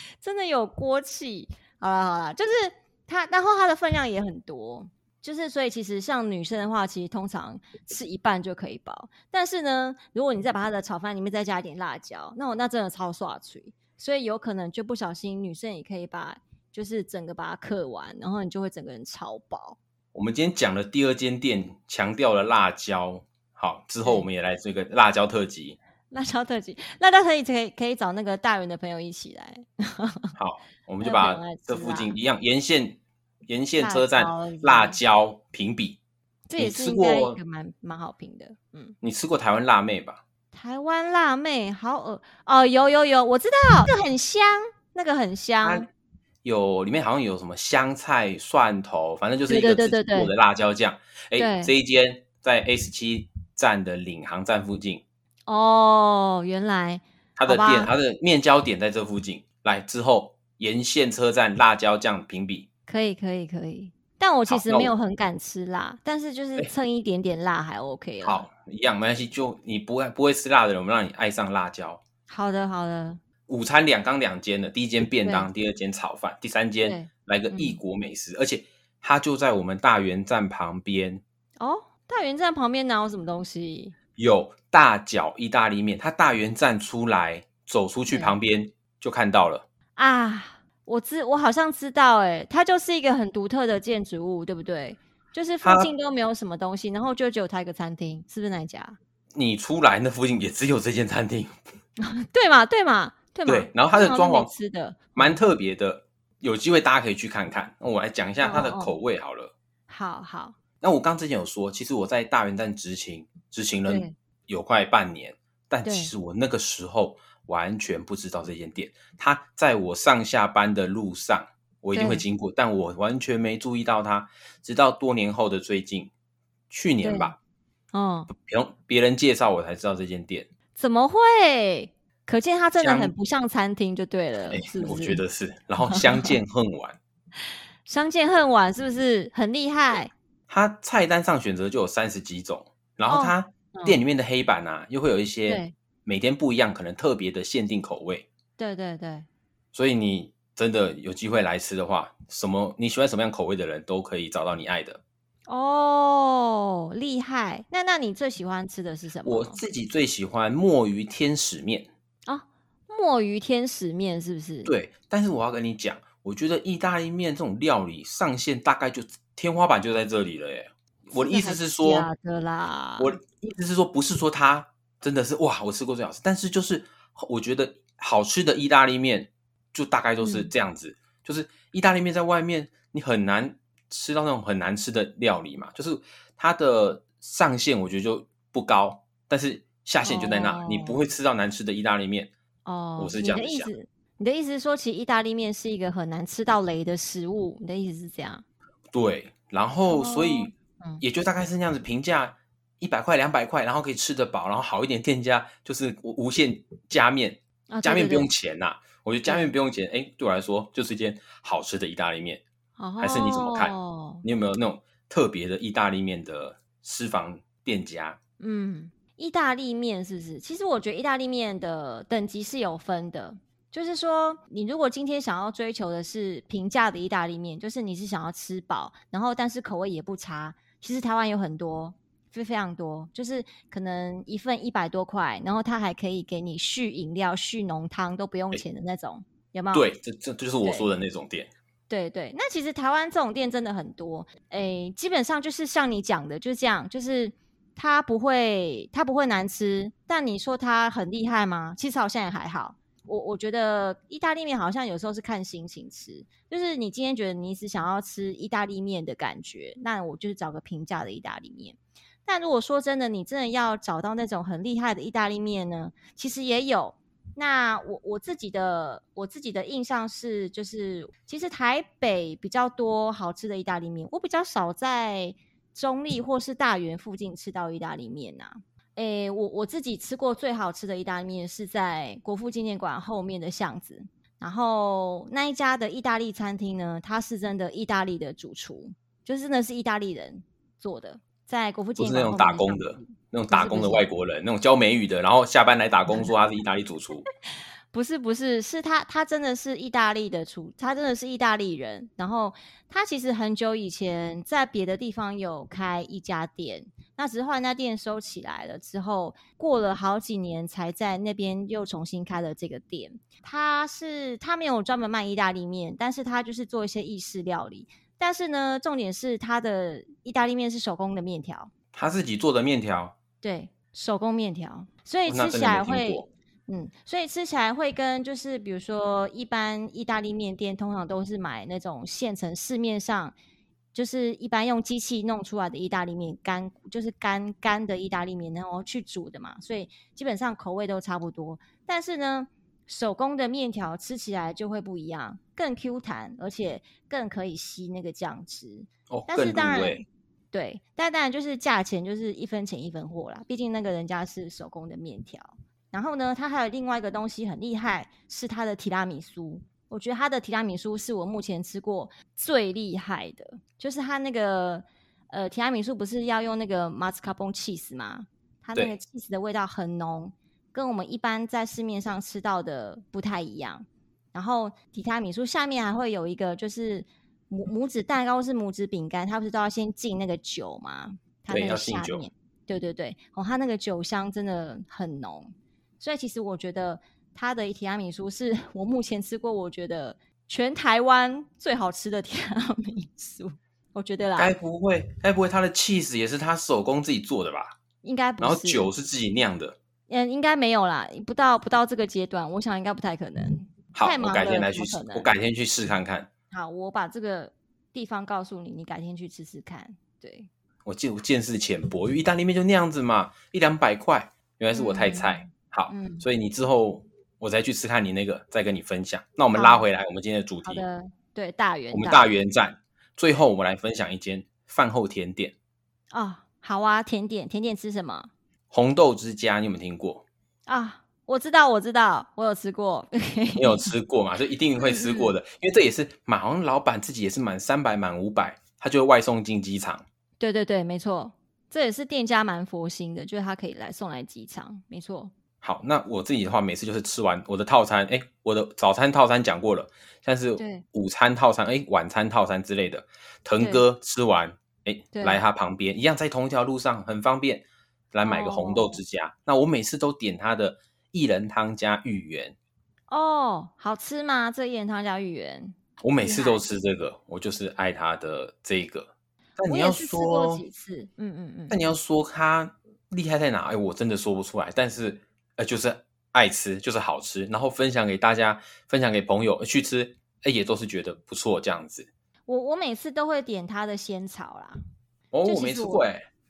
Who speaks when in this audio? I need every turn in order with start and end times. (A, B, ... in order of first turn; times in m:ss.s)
0:00.2-0:19.8 A
0:20.1-0:25.8 B
0:26.1-0:30.3 A
0:30.4-0:36.0 B
0:31.0-0:32.2 A
0:33.8-0:35.0 A
0:36.5-0:39.0 A
0:36.6-0:37.4 B
0:39.0-0:40.2 B
0:40.5-0:45.9 A
0:45.6-0:45.9 B
0:46.4-0:55.0 B
0:49.5-0:50.3 A
0:51.4-0:51.7 A
0:55.5-0:57.9 A
0:57.4-1:02.7 B
1:02.9-1:08.5 A
1:04.5-1:04.9 B
1:08.2-1:12.0 B
1:12.3-1:13.2 A
1:13.5-1:21.2 B
1:15.2-1:15.5 A
1:16.8-1:17.8 A
1:21.6-1:24.0 A
1:24.2-1:29.6 B
1:28.1-1:28.4 A
1:30.0-1:39.0 A
1:35.6-1:35.9 B
1:39.3-1:41.6 B
1:42.0-1:45.4 A
1:43.5-1:44.5 B
1:45.2-1:49.5 B
1:48.4-1:48.9 A
1:49.9-1:50.6 A
1:50.8-2:06.1 B
1:53.9-1:54.1 A
1:55.8-1:56.1 A
2:01.9-2:02.2 A
2:06.7-2:07.4 B
2:07.0-2:07.4 A
2:07.9-2:08.3 A
2:08.3-2:10.5 B
2:10.8-2:15.2 A
2:12.8-2:13.1 B
2:14.5-2:17.0 B
2:15.8-2:16.4 A
2:17.9-2:20.1 A
2:20.5-2:28.3 B
2:23.1-2:24.0 A
2:25.5-2:25.7 A
2:28.6-2:29.3 A
2:29.7-2:35.0 B
2:35.5-2:39.6 A
2:39.2-2:41.9 B
2:42.3-2:44.7 A
2:44.6-2:52.1 B
2:51.1-2:53.2 A
2:53.0-3:12.3 B
3:00.2-3:00.5 A
3:10.0-3:11.1 A
3:12.6-3:18.4 A
3:13.0-3:13.7 B
3:18.9-3:32.4 B
3:19.9-3:21.0 A
3:27.7-3:28.3 A
3:29.3-3:29.5 A
3:32.8-3:34.2 A
3:33.0-3:38.2 B
3:38.4-3:59.9 A
3:59.7-4:01.5 B
4:01.9-4:54.1 A
4:52.0-4:57.3 B
4:57.9-5:21.7 A
5:21.9-5:23.2 B
5:23.4-5:33.4 A
5:25.3-5:26.3 B
5:33.9-6:34.5 A
5:49.1-5:50.0 B
6:21.5-6:22.3 B
6:34.4-6:37.8 B
6:38.0-6:38.9 A
6:38.4-6:39.8 B
6:40.1-6:45.3 A
6:43.9-6:46.3 B
6:46.5-6:50.5 A
6:50.8-7:00.8 B
6:54.7-6:56.3 A
6:59.5-6:59.9 A
7:00.6-7:02.3 A
7:01.9-7:05.5 B
7:06.1-7:08.3 A
7:08.7-7:10.2 B
7:10.7-7:13.9 A
7:13.6-7:20.0 B
7:14.8-7:15.4 A
7:20.4-7:25.3 A
7:25.6-7:42.6 B
7:30.6-7:30.8 A
7:33.6-7:33.9 A
7:35.1-7:35.4 A
7:38.2-7:39.0 A
7:43.1-7:46.6 A
7:46.0-7:50.6 B
7:49.7-7:51.8 A
7:51.7-8:02.1 B
8:02.5-8:04.8 A
8:05.3-8:06.2 B
8:05.4-8:06.0 A